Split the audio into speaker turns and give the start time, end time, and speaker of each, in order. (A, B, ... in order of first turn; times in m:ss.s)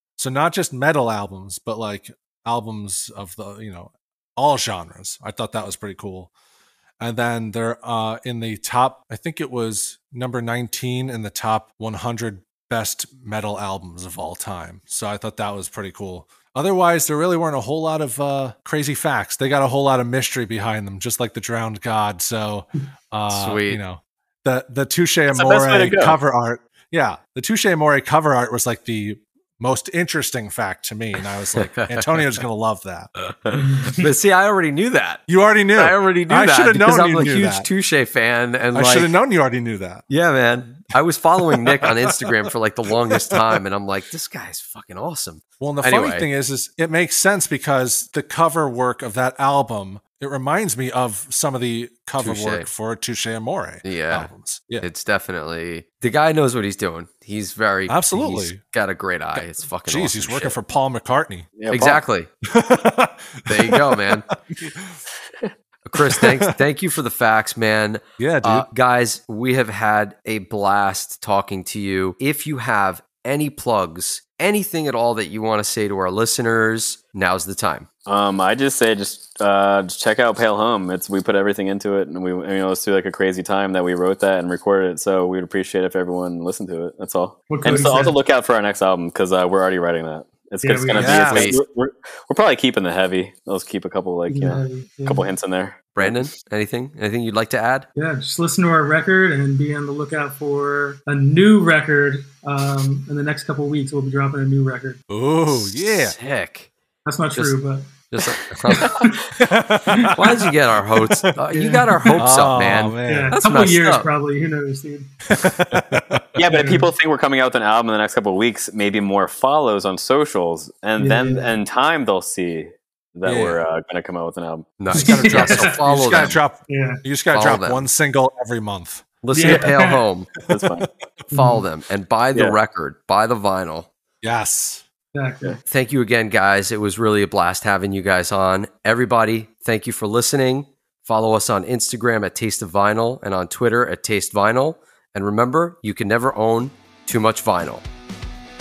0:00.2-0:06.3 A
0:07.0-0:33.1 A
0:23.3-0:23.8 B
0:25.3-0:26.2 C
0:31.6-0:32.4 B
0:33.2-0:39.1 B
0:33.5-0:34.1 D
0:35.3-0:37.7 A
0:38.7-0:40.0 A
0:40.1-0:46.3 B
0:41.6-0:42.3 A
0:43.1-0:43.6 A
0:45.6-0:54.9 A
0:52.2-0:52.7 B
0:53.8-1:00.6 B
0:57.9-0:58.6 A
0:59.3-1:01.5 A
1:01.6-1:02.0 C
1:01.7-1:02.3 B
1:02.4-1:05.0 A
1:03.5-1:04.3 B
1:05.8-1:17.9 B
1:06.1-1:06.6 A
1:08.2-1:08.7 A
1:18.0-1:36.3 C
1:27.5-1:28.2 D
1:30.6-1:31.2 D
1:31.0-1:31.5 A
1:31.2-1:31.6 B
1:34.3-1:35.3 D
1:36.0-1:37.9 B
1:38.0-1:45.0 D
1:45.1-1:46.1 A
1:45.5-1:46.7 B
1:47.0-1:49.3 D
1:48.1-1:49.1 B
1:49.4-1:51.3 A
1:50.1-1:54.1 B
1:51.5-1:52.2 D
1:52.1-1:53.4 A
1:53.0-1:55.1 D
1:55.2-1:56.2 A
1:56.3-2:04.8 C
1:56.5-1:56.9 D
2:01.0-2:01.5 D
2:03.2-2:03.6 A
2:04.8-2:06.4 B
2:04.9-2:09.7 A
2:04.9-2:05.8 D
2:06.7-2:07.0 D
2:07.3-2:07.8 B
2:09.2-2:10.3 B
2:09.3-2:10.0 D
2:10.5-2:10.9 C
2:11.3-2:13.9 B
2:11.3-2:11.6 D
2:14.2-2:14.8 A
2:15.1-2:15.6 D
2:15.6-2:27.8 B